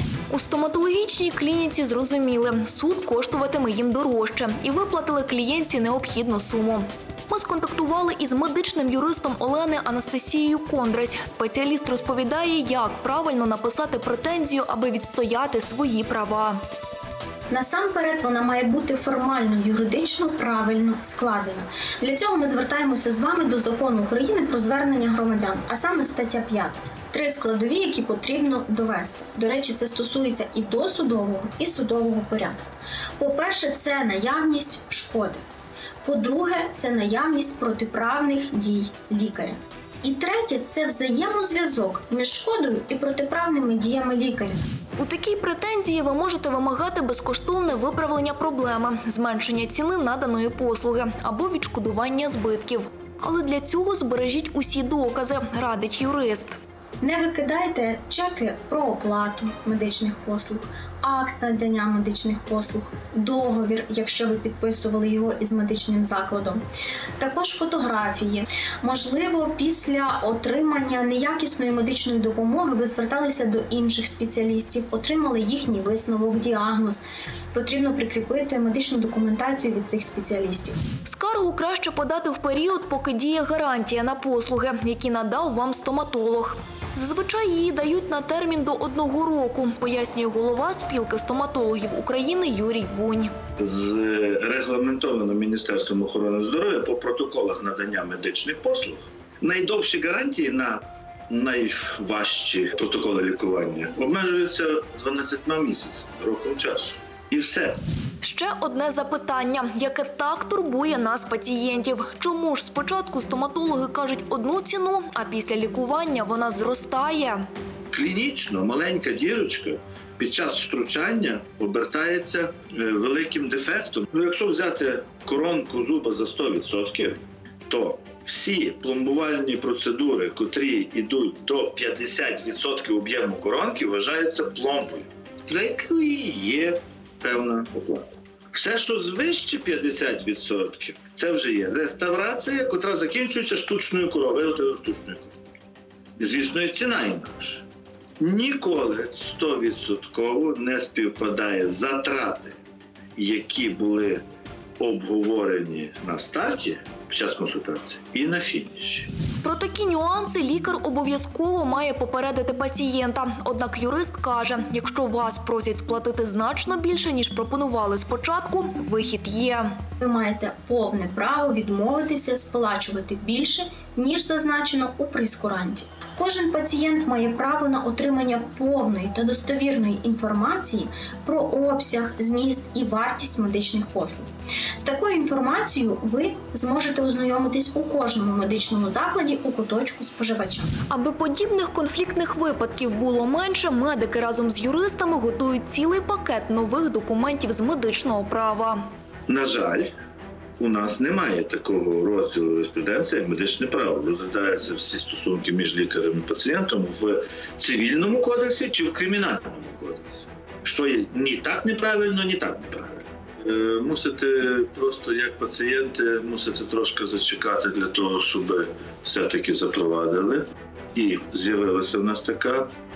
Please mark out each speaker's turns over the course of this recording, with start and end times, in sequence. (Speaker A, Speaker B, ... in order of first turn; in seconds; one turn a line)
Speaker A: 0.3-16.6
Speaker B: 17.5-32.6
Speaker B: 33.2-35.4
Speaker B: 36.0-44.6
Speaker A: 45.0-56.6
Speaker B: 57.0-66.6
Speaker B: 67.2-80.8
Speaker A: 81.0-93.3
Speaker C: 93.6-107.8
Speaker A: 108.2-117.5
Speaker C: 117.9-145.3
Speaker C: 146.2-147.7
Speaker C: 148.2-152.6
Speaker C: 153.2-154.2
Speaker C: 154.8-159.1
Speaker A: 159.4-169.8
Speaker B: 170.0-190.8
Speaker A: 190.9-198.8
Speaker C: 199.3-199.9
Speaker C: 200.6-222.7